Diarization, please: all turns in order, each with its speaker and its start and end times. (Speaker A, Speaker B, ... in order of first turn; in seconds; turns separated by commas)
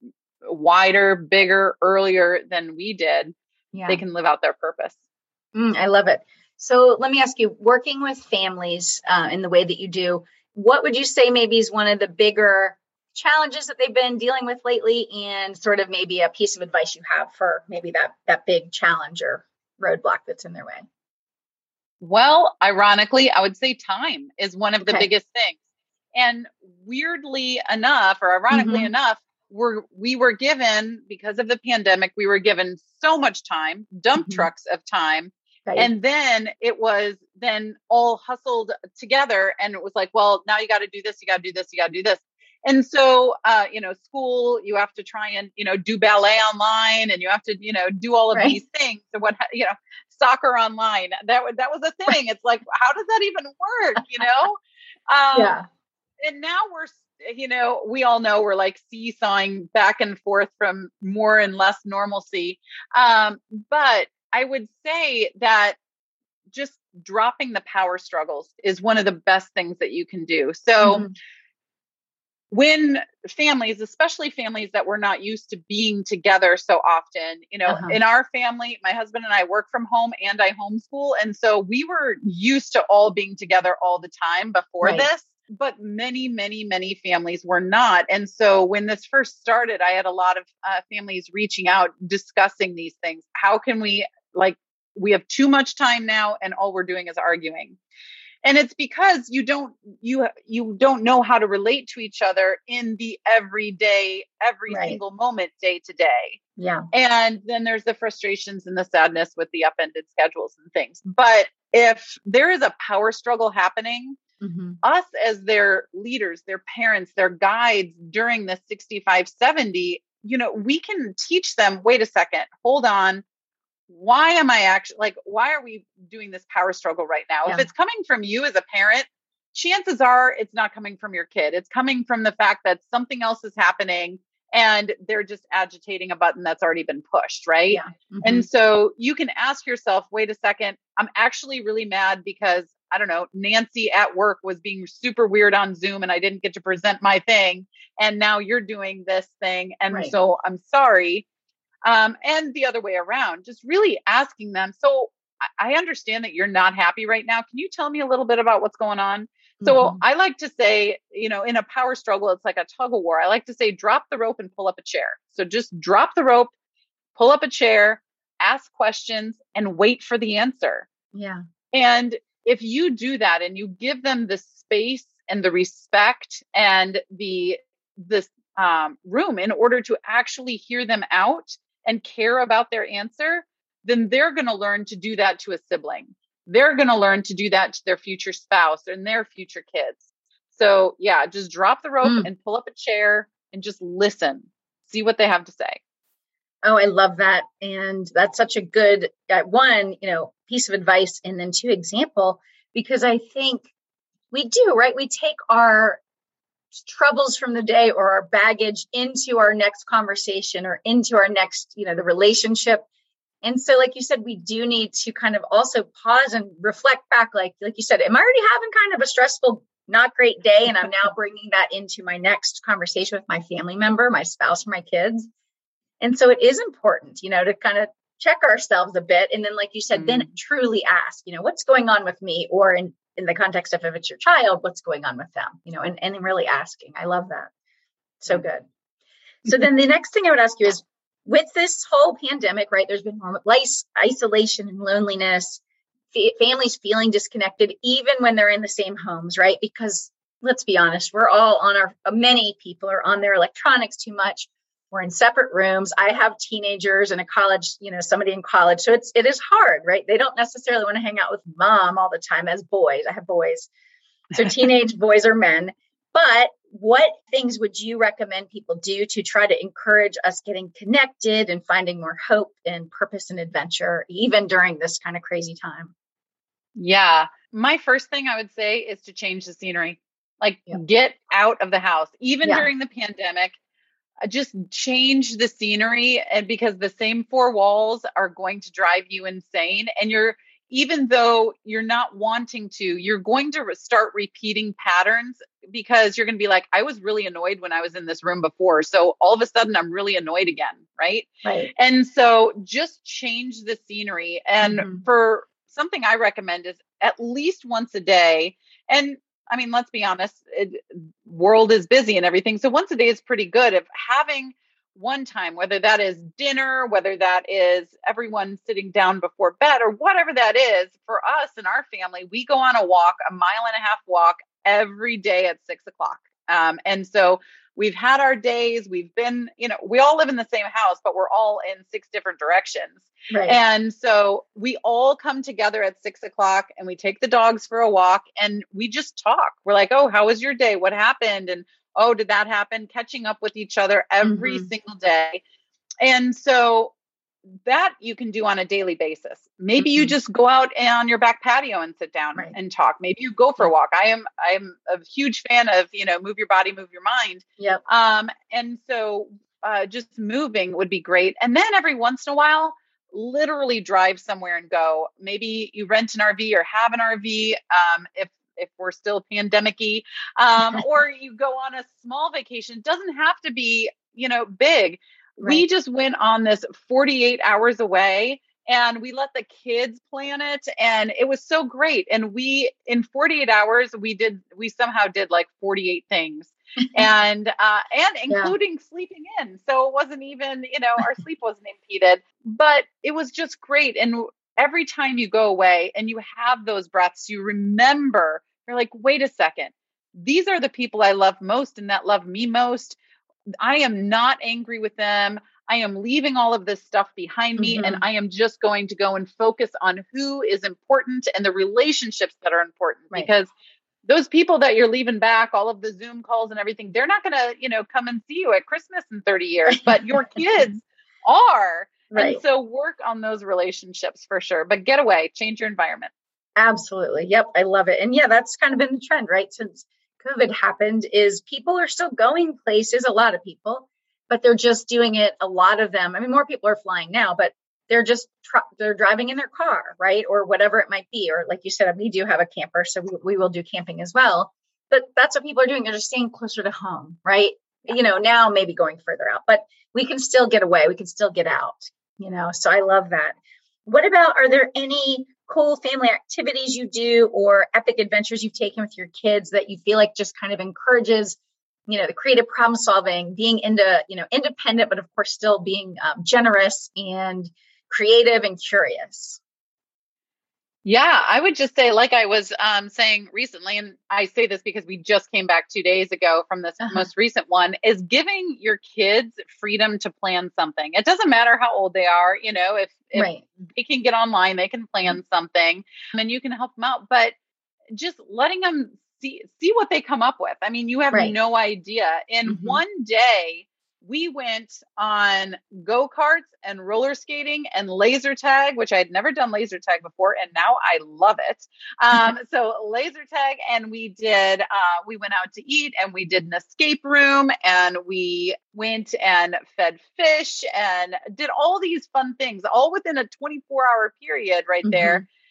Speaker A: 0.4-3.3, Speaker B: 3.7-4.0, Speaker A: 3.9-5.0, Speaker B: 5.5-20.9, Speaker A: 22.0-25.6, Speaker B: 24.8-25.1, Speaker A: 26.1-55.5, Speaker B: 28.5-28.9, Speaker B: 34.2-34.5, Speaker B: 55.3-55.6, Speaker A: 56.2-65.8, Speaker A: 66.5-71.0, Speaker B: 70.8-71.1, Speaker A: 72.5-97.8, Speaker B: 77.7-78.0, Speaker B: 84.8-85.1, Speaker A: 98.4-106.4, Speaker B: 104.7-105.0, Speaker B: 106.6-106.8, Speaker A: 106.9-114.2, Speaker B: 114.4-114.8, Speaker A: 114.8-123.2, Speaker A: 123.9-151.2, Speaker B: 137.7-138.4, Speaker A: 151.8-166.5, Speaker B: 159.6-160.0, Speaker A: 167.1-170.9, Speaker B: 171.1-171.4, Speaker A: 171.7-195.8, Speaker B: 192.0-192.3, Speaker B: 196.6-203.7, Speaker B: 204.3-206.0, Speaker B: 206.7-212.8, Speaker B: 213.4-225.3, Speaker B: 226.0-237.5, Speaker A: 229.9-230.3, Speaker B: 238.2-238.6, Speaker B: 239.4-245.6, Speaker B: 246.1-263.7, Speaker B: 264.3-275.9, Speaker A: 276.8-283.6, Speaker B: 282.4-282.7, Speaker A: 284.2-345.4, Speaker B: 301.4-301.7, Speaker B: 304.6-305.0, Speaker B: 333.3-333.6, Speaker B: 344.2-344.7, Speaker A: 346.0-346.9, Speaker A: 347.6-403.0, Speaker B: 349.8-350.1, Speaker A: 403.6-413.5, Speaker B: 407.6-408.0, Speaker A: 414.0-426.1, Speaker B: 422.1-422.4, Speaker B: 426.6-469.4, Speaker A: 470.8-487.3, Speaker B: 483.1-483.4, Speaker A: 487.9-515.2, Speaker B: 492.4-492.8, Speaker B: 514.8-515.2